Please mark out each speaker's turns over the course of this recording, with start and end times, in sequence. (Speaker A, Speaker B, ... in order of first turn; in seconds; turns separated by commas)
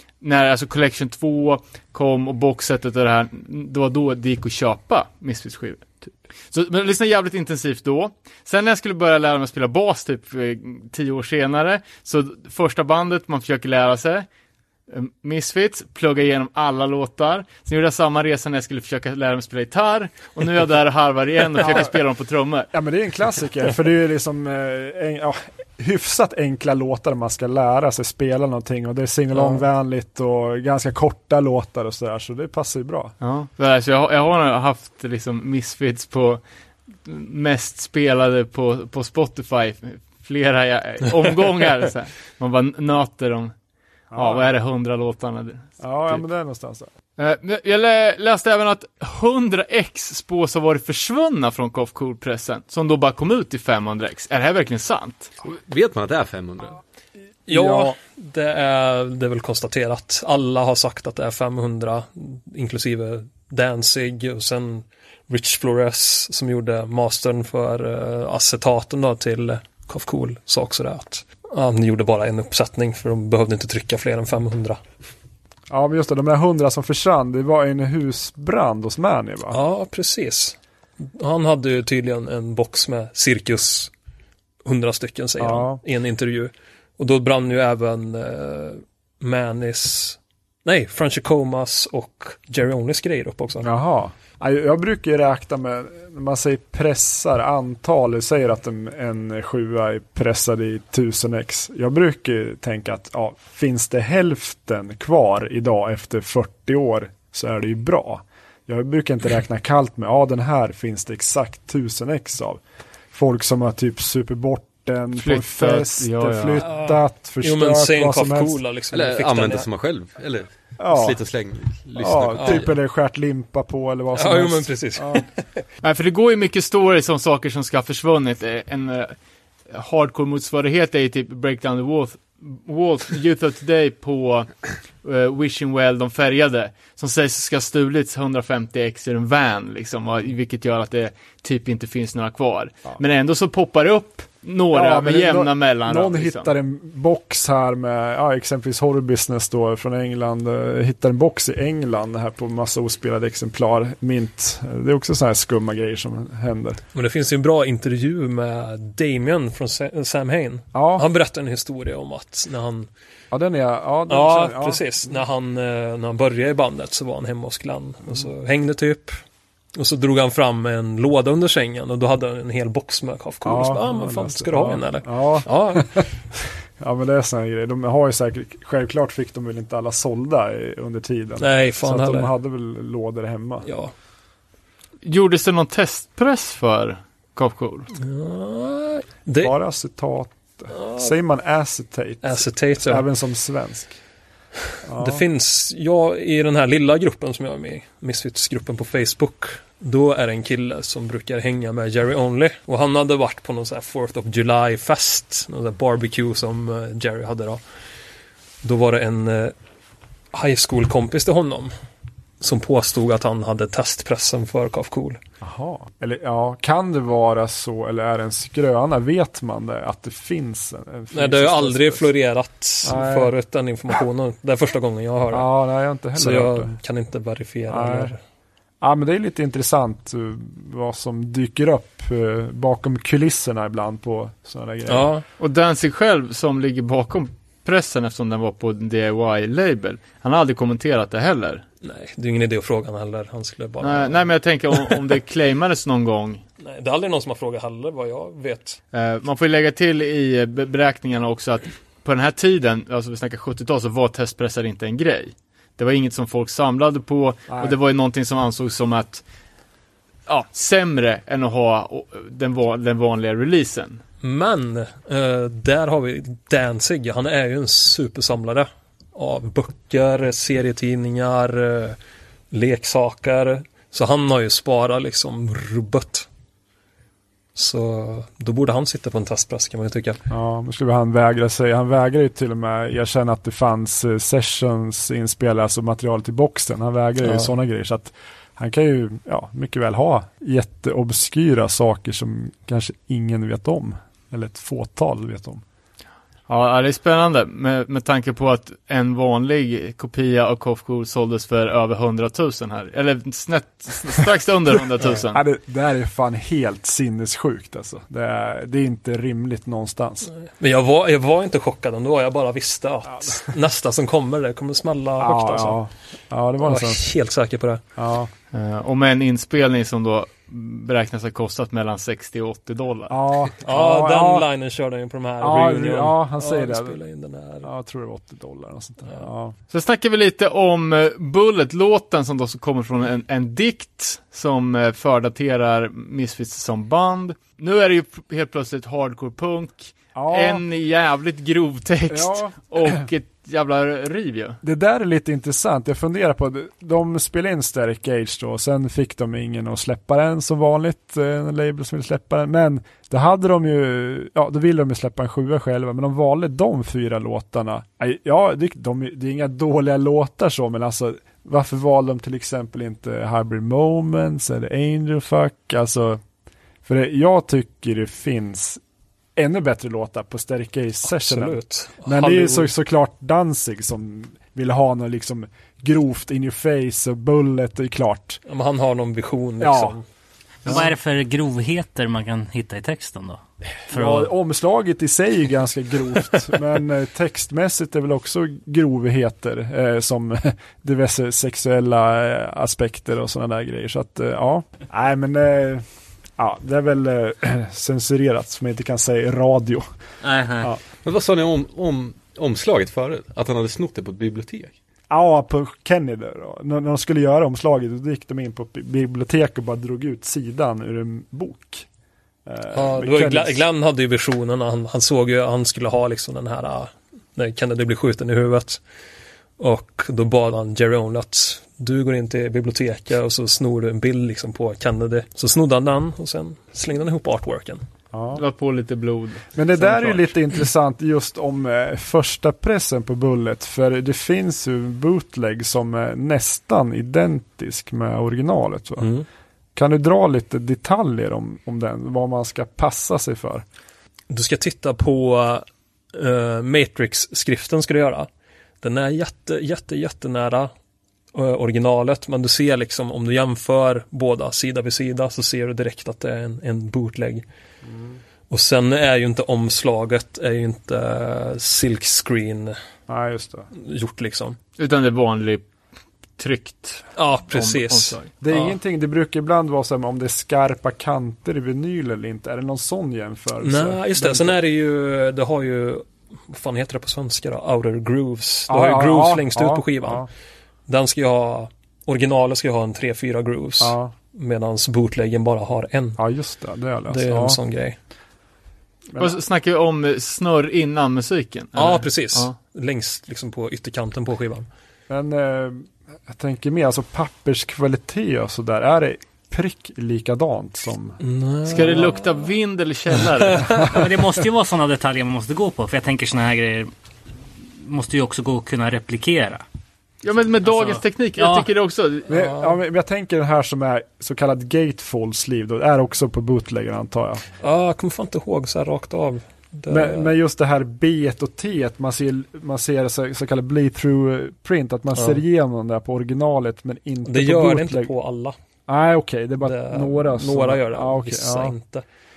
Speaker A: 0.2-14.3, Speaker A: 14.9-22.7, Speaker B: 21.6-21.9, Speaker B: 22.7-33.1, Speaker C: 29.3-29.6, Speaker A: 33.2-36.4, Speaker A: 37.0-43.5, Speaker B: 44.1-44.5, Speaker A: 44.1-46.2, Speaker B: 45.8-46.9, Speaker A: 47.2-55.3, Speaker D: 55.4-56.8, Speaker C: 57.5-74.8, Speaker B: 57.5-58.0, Speaker B: 75.7-79.6, Speaker C: 79.5-83.9, Speaker C: 84.6-93.7, Speaker B: 85.4-85.8, Speaker B: 93.6-112.6, Speaker B: 113.1-118.6, Speaker A: 115.2-116.6, Speaker C: 116.6-119.7, Speaker D: 118.9-122.7, Speaker B: 120.8-121.2, Speaker B: 122.0-125.2, Speaker C: 122.4-122.7, Speaker C: 124.1-125.6, Speaker A: 125.8-129.2, Speaker A: 129.7-146.5, Speaker B: 144.7-156.8, Speaker C: 156.9-162.9, Speaker B: 160.7-161.1, Speaker B: 163.3-165.2, Speaker C: 164.1-169.2, Speaker C: 169.8-176.1, Speaker B: 173.4-183.7, Speaker C: 181.4-182.3, Speaker C: 183.7-183.9, Speaker A: 185.0-187.9, Speaker C: 188.0-189.5, Speaker B: 189.4-194.0, Speaker C: 190.7-191.1, Speaker C: 192.2-193.0, Speaker B: 194.8-195.2, Speaker C: 195.0-207.6, Speaker C: 208.6-209.5, Speaker C: 210.3-211.7, Speaker C: 212.4-215.2, Speaker B: 215.4-222.1, Speaker C: 221.1-225.5, Speaker B: 222.8-223.3, Speaker B: 225.3-226.7, Speaker C: 226.1-228.2, Speaker B: 227.7-228.1, Speaker B: 228.8-235.1, Speaker C: 234.9-235.2, Speaker A: 235.4-241.6, Speaker C: 241.8-245.0, Speaker A: 243.8-246.4, Speaker C: 246.6-248.8, Speaker A: 248.9-259.2, Speaker B: 257.5-257.8, Speaker A: 260.3-264.0, Speaker C: 264.2-272.0, Speaker C: 272.5-276.3, Speaker C: 277.6-280.2, Speaker B: 280.3-295.6, Speaker C: 287.2-287.5, Speaker A: 296.5-305.4, Speaker B: 305.3-310.3, Speaker C: 310.3-315.8, Speaker B: 313.1-313.5, Speaker B: 315.2-317.1, Speaker C: 316.6-317.8, Speaker B: 318.0-318.3, Speaker A: 318.5-323.1, Speaker B: 323.1-324.5, Speaker C: 323.6-327.7, Speaker B: 325.4-327.0, Speaker B: 327.6-329.6, Speaker A: 329.7-344.6, Speaker B: 340.1-340.6, Speaker B: 342.1-343.0, Speaker B: 344.6-366.2, Speaker B: 366.8-368.8, Speaker B: 369.4-378.4, Speaker C: 371.1-372.7, Speaker C: 378.5-380.0, Speaker B: 379.6-380.0, Speaker E: 380.6-384.3, Speaker B: 383.9-395.8, Speaker B: 396.4-399.9, Speaker E: 400.2-400.7, Speaker D: 401.1-404.8, Speaker B: 405.1-411.9, Speaker B: 412.5-413.6, Speaker C: 412.7-418.8, Speaker C: 419.6-427.8, Speaker B: 428.1-428.4, Speaker A: 428.4-430.3, Speaker B: 429.6-439.1, Speaker C: 439.0-439.3, Speaker B: 439.8-443.6, Speaker C: 444.3-448.3, Speaker C: 448.8-450.7, Speaker C: 451.3-457.4, Speaker B: 457.9-458.2, Speaker C: 458.5-462.8, Speaker B: 463.1-463.7, Speaker C: 463.8-464.6, Speaker A: 464.8-465.7, Speaker A: 466.4-468.3, Speaker C: 467.2-468.8, Speaker B: 468.4-474.6, Speaker C: 473.6-480.3, Speaker B: 478.7-480.3, Speaker C: 480.9-486.2, Speaker B: 483.8-484.1, Speaker B: 486.2-487.6, Speaker C: 487.1-487.9, Speaker B: 489.1-489.4, Speaker A: 489.2-492.5, Speaker C: 491.8-494.7, Speaker B: 495.1-501.2, Speaker C: 501.2-502.5, Speaker A: 501.7-503.8, Speaker C: 503.2-504.0, Speaker B: 503.7-504.1, Speaker E: 503.9-506.9, Speaker E: 507.8-509.6, Speaker A: 510.2-512.3, Speaker E: 510.6-511.7, Speaker B: 512.3-517.5, Speaker C: 512.3-512.8, Speaker C: 517.6-520.3, Speaker B: 519.9-528.1, Speaker C: 525.1-525.4, Speaker C: 527.2-528.5, Speaker B: 528.9-531.7, Speaker C: 529.6-532.0